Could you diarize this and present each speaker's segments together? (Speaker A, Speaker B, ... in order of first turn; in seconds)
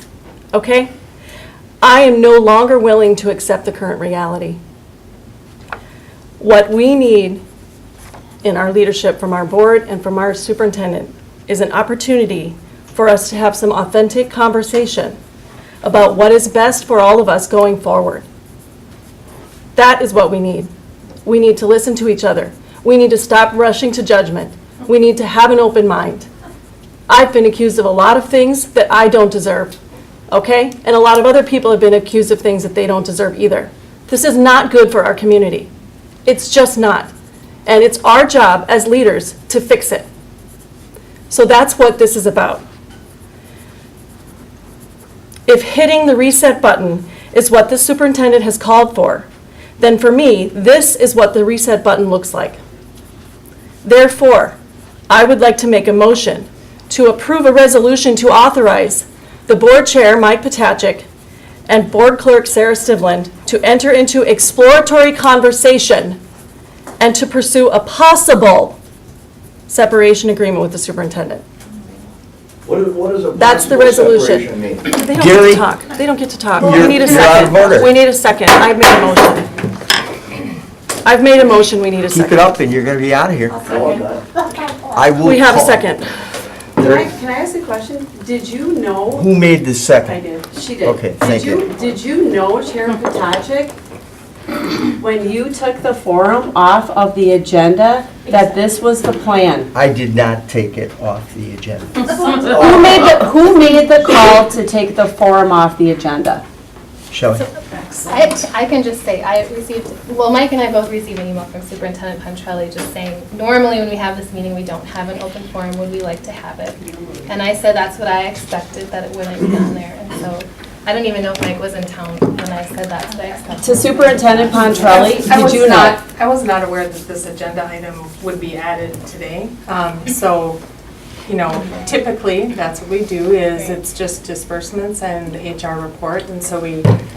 Speaker A: 0.5-0.9, 1.8-4.6, 6.4-7.4, 8.4-15.2, 15.8-18.3, 19.8-20.7, 21.2-26.3, 27.1-29.8, 30.3-35.7, 36.2-37.1, 37.7-40.1, 41.3-42.6, 45.5-49.3, 49.8-52.6, 53.8-54.6, 55.1-61.1, 61.7-66.2, 67.0-68.8, 69.7-71.4, 73.4-79.5, 81.0-82.5, 85.2-86.2
Speaker B: 72.7-74.9, 83.7-84.2, 102.4-102.8
Speaker C: 75.0-75.7, 76.6-78.0, 82.1-83.7, 84.9-85.9, 86.8-87.0, 89.1-90.2, 90.8-91.7, 99.7-102.1, 107.1-107.4
Speaker D: 86.8-89.2, 90.1-93.8, 95.0-99.7, 102.2-106.4, 123.6-126.0
Speaker E: 108.0-125.3
Speaker F: 124.8-130.6, 131.3-136.9